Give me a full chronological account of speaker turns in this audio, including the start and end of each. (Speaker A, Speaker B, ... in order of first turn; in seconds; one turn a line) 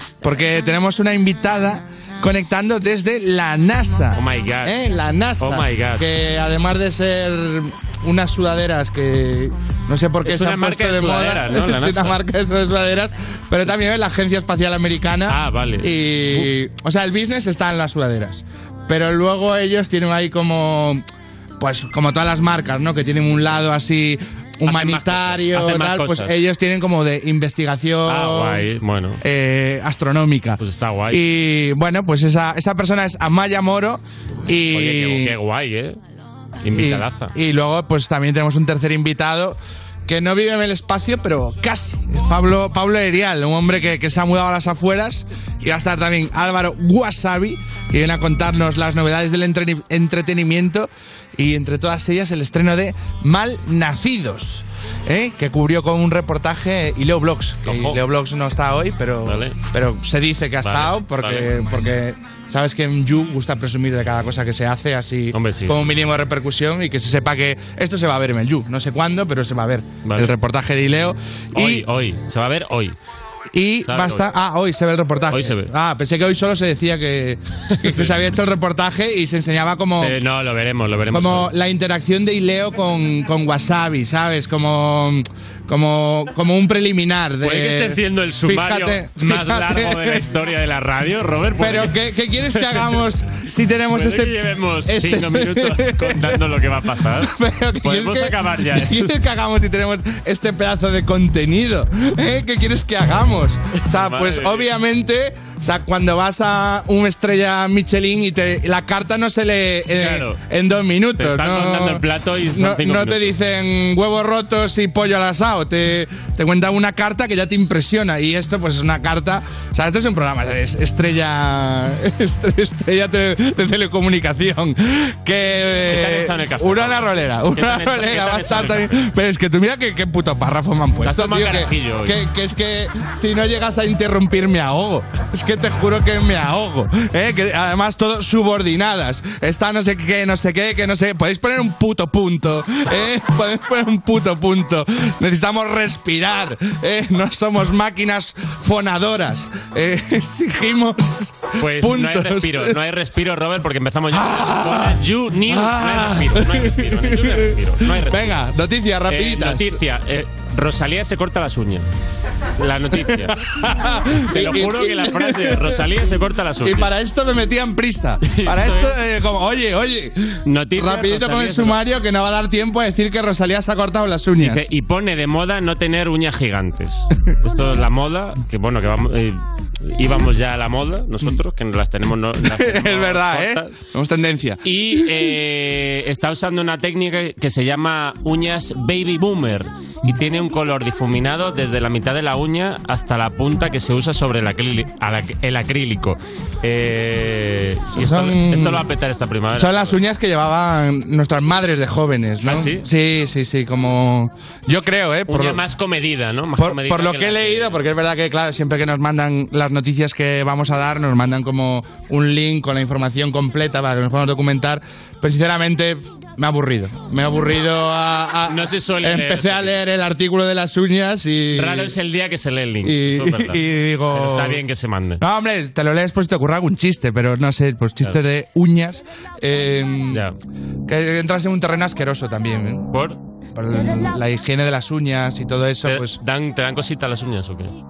Speaker A: 0.2-21.0
Speaker B: 4.2-4.8
Speaker B: 5.4-6.1
Speaker B: 10.2-12.2
Speaker B: 15.3-16.5
Speaker A: 21.6-28.7
Speaker B: 24.6-26.4
Speaker B: 28.1-29.2
Speaker A: 29.2-35.4
Speaker B: 30.6-31.2
Speaker B: 34.7-36.0
Speaker B: 36.6-37.3
Speaker A: 36.7-71.9
Speaker B: 57.6-58.0
Speaker B: 59.2-59.6
Speaker B: 60.6-61.8
Speaker B: 65.3-65.9
Speaker B: 70.0-70.3
Speaker B: 71.5-73.0
Speaker A: 73.5-80.2
Speaker B: 73.9-74.3
Speaker B: 75.3-75.7
Speaker B: 77.8-78.2
Speaker B: 80.0-81.5
Speaker A: 81.1-90.2
Speaker B: 87.4-92.0
Speaker A: 91.6-94.3
Speaker B: 92.5-93.1
Speaker B: 93.9-99.2
Speaker A: 94.8-96.4
Speaker A: 97.2-152.8
Speaker B: 103.9-104.7
Speaker B: 109.9-110.4
Speaker B: 111.2-113.4
Speaker B: 125.9-128.9
Speaker B: 131.0-132.2
Speaker B: 151.6-158.4
Speaker A: 154.1-159.8
Speaker B: 159.1-161.9
Speaker B: 162.6-163.4
Speaker A: 163.3-165.8
Speaker B: 164.3-166.9
Speaker A: 166.7-174.7
Speaker B: 168.2-169.0
Speaker B: 170.5-171.8
Speaker B: 174.4-183.7
Speaker A: 182.4-185.1
Speaker B: 184.6-200.0
Speaker A: 197.9-198.8
Speaker A: 199.6-205.6
Speaker B: 202.4-202.9
Speaker B: 205.3-207.7
Speaker A: 206.6-221.9
Speaker B: 218.5-219.8
Speaker B: 221.6-225.2
Speaker A: 222.8-224.6
Speaker A: 225.2-230.2
Speaker B: 230.1-230.4
Speaker A: 230.9-232.9
Speaker B: 232.9-233.2
Speaker A: 233.6-236.2
Speaker B: 235.8-237.7